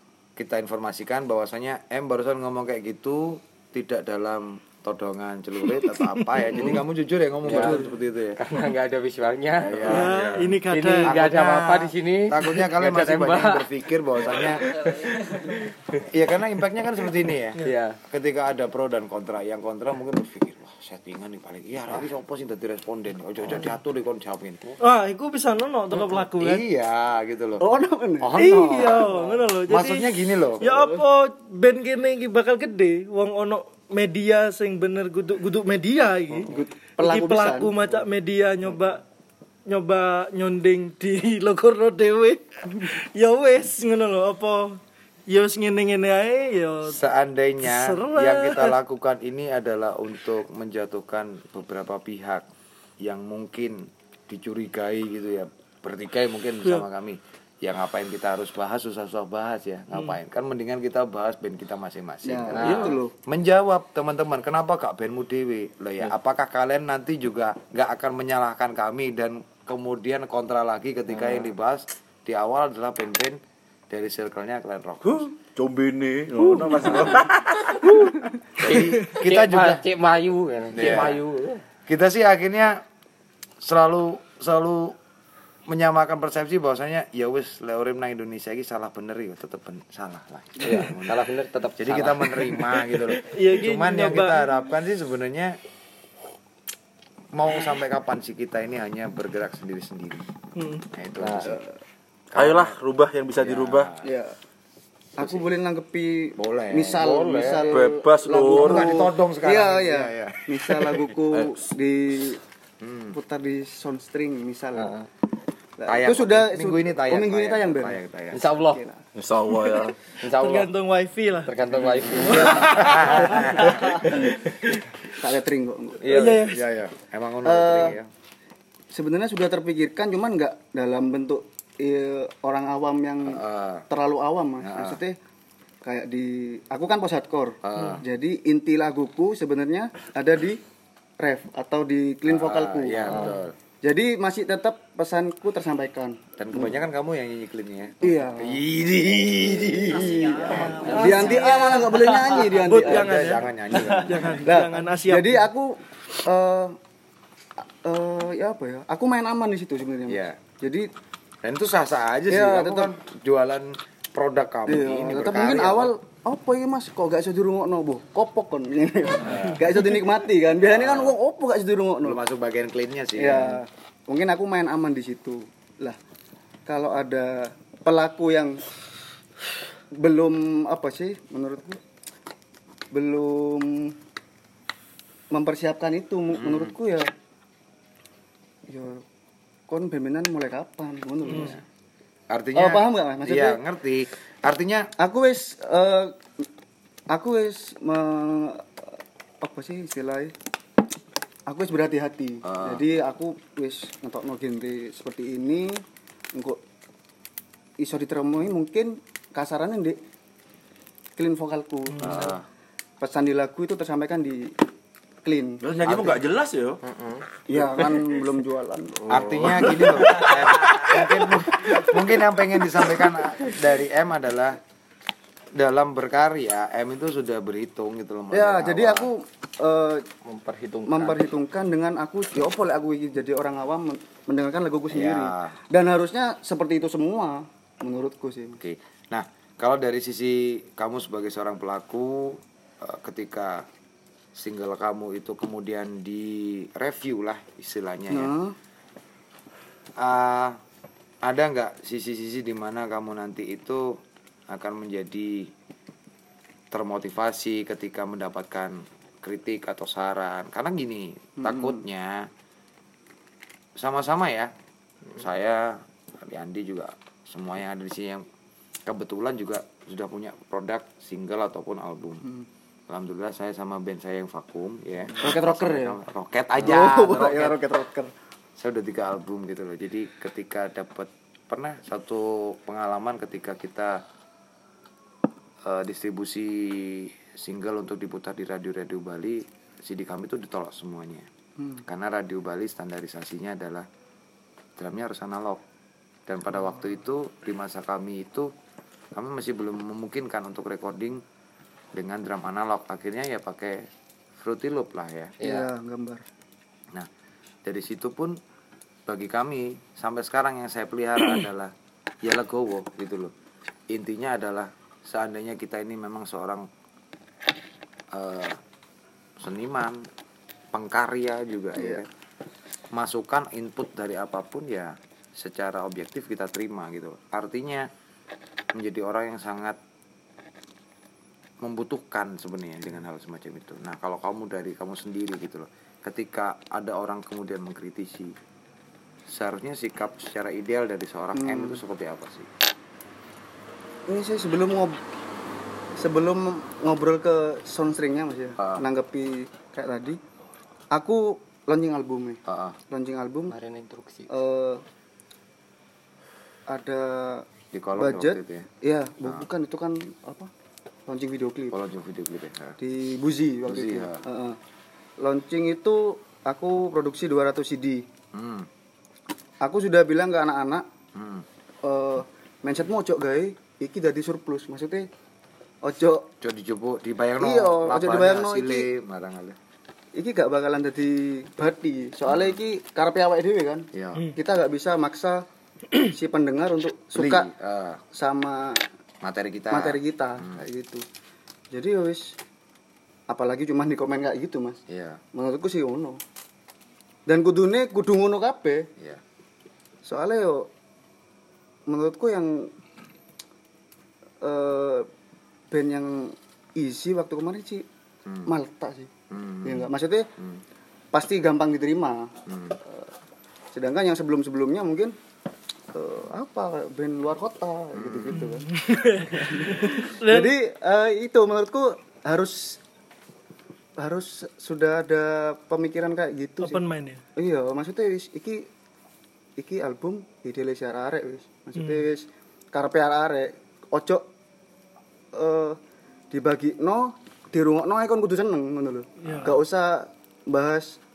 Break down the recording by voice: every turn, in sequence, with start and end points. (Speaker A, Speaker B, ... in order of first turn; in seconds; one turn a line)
Speaker A: 0.4-8.4
Speaker B: 6.0-6.8
Speaker C: 7.5-7.8
Speaker D: 7.5-7.8
Speaker C: 8.4-10.1
Speaker A: 9.6-10.1
Speaker E: 9.8-10.6
Speaker B: 9.9-11.2
Speaker C: 10.7-13.7
Speaker A: 11.1-14.7
Speaker C: 14.2-15.8
Speaker A: 16.1-24.6
Speaker C: 17.6-18.0
Speaker B: 24.8-26.6
Speaker A: 26.3-27.6
Speaker D: 27.6-29.2
Speaker A: 28.2-29.0
Speaker B: 28.4-39.0
Speaker A: 29.7-30.6
Speaker D: 30.6-31.0
Speaker D: 36.5-37.7
Speaker B: 39.7-44.8
Speaker B: 45.3-47.0
Speaker A: 46.8-52.5
Speaker B: 47.6-48.8
Speaker A: 53.0-73.4
Speaker D: 62.2-63.1
Speaker C: 62.5-63.0
Speaker C: 71.1-71.5
Speaker A: 73.9-75.3
Speaker E: 75.6-78.2
Speaker B: 76.5-76.9
Speaker C: 76.8-77.1
Speaker A: 78.6-79.8
Speaker C: 78.7-81.6
Speaker A: 80.7-81.2
Speaker A: 81.9-82.8
Speaker A: 83.6-85.0
Speaker A: 85.7-95.6
Speaker C: 90.6-92.8
Speaker B: 93.2-94.4
Speaker A: 97.3-100.3
Speaker B: 100.6-100.8
Speaker A: 100.8-101.6
Speaker C: 101.2-101.6
Speaker A: 102.3-102.8
Speaker E: 102.3-103.9
Speaker A: 103.4-104.0
Speaker D: 104.0-104.3
Speaker D: 105.2-112.4
Speaker A: 105.2-105.5
Speaker A: 106.4-107.1
Speaker C: 106.9-108.0
Speaker E: 107.7-108.9
Speaker A: 108.5-110.4
Speaker E: 111.3-111.6
Speaker A: 112.8-113.2
Speaker D: 113.1-115.0
Speaker C: 114.8-115.0
Speaker D: 115.8-118.0
Speaker A: 115.9-118.4
Speaker C: 118.3-118.8
Speaker D: 118.7-119.0
Speaker E: 119.2-120.0
Speaker C: 120.2-120.7
Speaker B: 120.4-121.5
Speaker C: 121.5-122.8
Speaker D: 122.2-124.1
Speaker B: 122.3-123.8
Speaker A: 122.5-123.8
Speaker D: 125.2-126.1
Speaker A: 126.0-128.1
Speaker B: 126.1-126.6
Speaker D: 127.4-128.0
Speaker D: 128.9-135.2
Speaker A: 133.2-133.8
Speaker A: 134.6-135.0
Speaker D: 135.8-140.6
Speaker A: 137.6-138.1
Speaker D: 141.2-146.8
Speaker A: 142.3-143.5
Speaker C: 143.1-143.4
Speaker A: 146.4-150.9
Speaker D: 148.0-148.6
Speaker D: 149.8-153.3
Speaker B: 150.6-151.9
Speaker C: 150.8-152.5
Speaker A: 152.6-154.5
Speaker B: 152.6-155.5
Speaker D: 154.4-156.8
Speaker D: 157.8-160.9
Speaker A: 160.1-160.4
Speaker A: 161.4-165.9
Speaker D: 162.3-162.9
Speaker D: 164.7-172.2
Speaker A: 169.2-169.7
Speaker A: 170.6-171.2
Speaker A: 172.0-173.6
Speaker D: 173.2-176.0
Speaker D: 176.7-178.6
Speaker D: 179.9-181.8
Speaker D: 182.9-183.9
Speaker D: 185.3-187.1
Speaker A: 186.3-186.8
Speaker D: 188.7-189.0
Speaker D: 189.7-191.6
Speaker A: 191.2-191.6
Speaker B: 191.3-191.6
Speaker A: 192.3-194.9
Speaker D: 192.6-193.6
Speaker D: 195.0-196.2
Speaker D: 197.1-198.9
Speaker D: 199.4-200.3
Speaker D: 201.5-205.8
Speaker A: 202.4-202.8
Speaker D: 206.3-206.6
Speaker D: 207.8-210.0
Speaker D: 211.2-212.4
Speaker B: 211.9-212.3
Speaker A: 212.0-212.4
Speaker D: 213.0-214.5
Speaker D: 215.2-215.6
Speaker E: 215.6-216.8
Speaker A: 215.8-216.2
Speaker C: 216.8-217.2
Speaker D: 217.5-219.8
Speaker A: 219.1-224.6
Speaker C: 219.1-221.6
Speaker A: 225.6-229.1
Speaker D: 228.3-230.1
Speaker C: 230.3-231.3
Speaker D: 230.9-238.6
Speaker A: 234.9-235.6
Speaker A: 238.6-243.7
Speaker A: 244.3-248.3
Speaker D: 248.1-248.6
Speaker A: 250.0-250.6
Speaker A: 251.2-254.0
Speaker A: 254.5-255.5
Speaker A: 256.7-262.3
Speaker D: 261.4-261.8
Speaker A: 263.8-264.5
Speaker A: 265.1-268.2
Speaker A: 268.9-272.3
Speaker A: 272.9-277.6
Speaker D: 275.2-276.0
Speaker D: 276.6-278.1
Speaker A: 278.6-284.0
Speaker A: 285.7-291.3
Speaker D: 291.6-291.8
Speaker A: 291.9-293.9
Speaker A: 294.8-295.6
Speaker A: 296.3-298.5
Speaker A: 299.1-301.2
Speaker A: 301.9-303.8
Speaker A: 304.4-305.4
Speaker C: 305.4-305.7
Speaker D: 305.4-306.2
Speaker A: 307.6-308.4
Speaker A: 309.1-313.3
Speaker A: 313.9-316.7
Speaker A: 318.1-318.6
Speaker A: 319.4-320.1
Speaker A: 320.7-322.1
Speaker D: 321.8-322.0
Speaker A: 322.9-327.9
Speaker A: 328.8-329.8
Speaker A: 331.6-338.3
Speaker A: 339.3-342.5
Speaker D: 341.4-341.8
Speaker D: 344.1-345.0
Speaker D: 346.0-350.2
Speaker A: 348.6-348.9
Speaker D: 350.9-353.6
Speaker A: 352.5-352.8
Speaker C: 353.5-354.3
Speaker D: 354.3-354.8
Speaker D: 356.7-357.4
Speaker A: 357.7-358.7
Speaker D: 358.0-360.5
Speaker A: 359.2-359.5
Speaker D: 361.1-361.8
Speaker A: 361.7-362.8
Speaker D: 362.8-364.6
Speaker A: 363.7-364.2
Speaker D: 365.2-368.1
Speaker A: 368.3-368.7
Speaker D: 369.6-370.9
Speaker A: 371.1-371.5
Speaker D: 371.8-375.1
Speaker D: 375.8-376.3
Speaker A: 376.4-379.6
Speaker D: 377.4-378.9
Speaker D: 380.1-385.4
Speaker A: 382.3-382.6
Speaker A: 383.9-384.3
Speaker D: 386.0-387.5
Speaker A: 387.1-388.0
Speaker D: 388.1-388.8
Speaker A: 389.2-390.7
Speaker D: 389.7-391.0
Speaker D: 391.7-392.4
Speaker D: 393.3-394.8
Speaker A: 394.9-395.2
Speaker D: 395.3-396.2
Speaker D: 397.3-398.9
Speaker D: 400.1-400.7
Speaker D: 401.9-402.7
Speaker D: 404.4-405.1
Speaker D: 405.7-407.9
Speaker A: 408.3-408.5
Speaker D: 408.5-409.1
Speaker A: 409.3-410.6
Speaker D: 409.6-410.3
Speaker D: 411.1-412.3
Speaker A: 412.5-412.8
Speaker D: 413.7-415.1
Speaker D: 415.9-422.8
Speaker A: 417.9-418.5
Speaker B: 418.7-420.5
Speaker D: 424.0-426.8
Speaker B: 426.6-427.2
Speaker D: 427.4-428.7
Speaker D: 429.6-434.2
Speaker B: 431.8-432.0
Speaker D: 435.3-435.8
Speaker D: 436.3-441.0
Speaker B: 439.2-439.6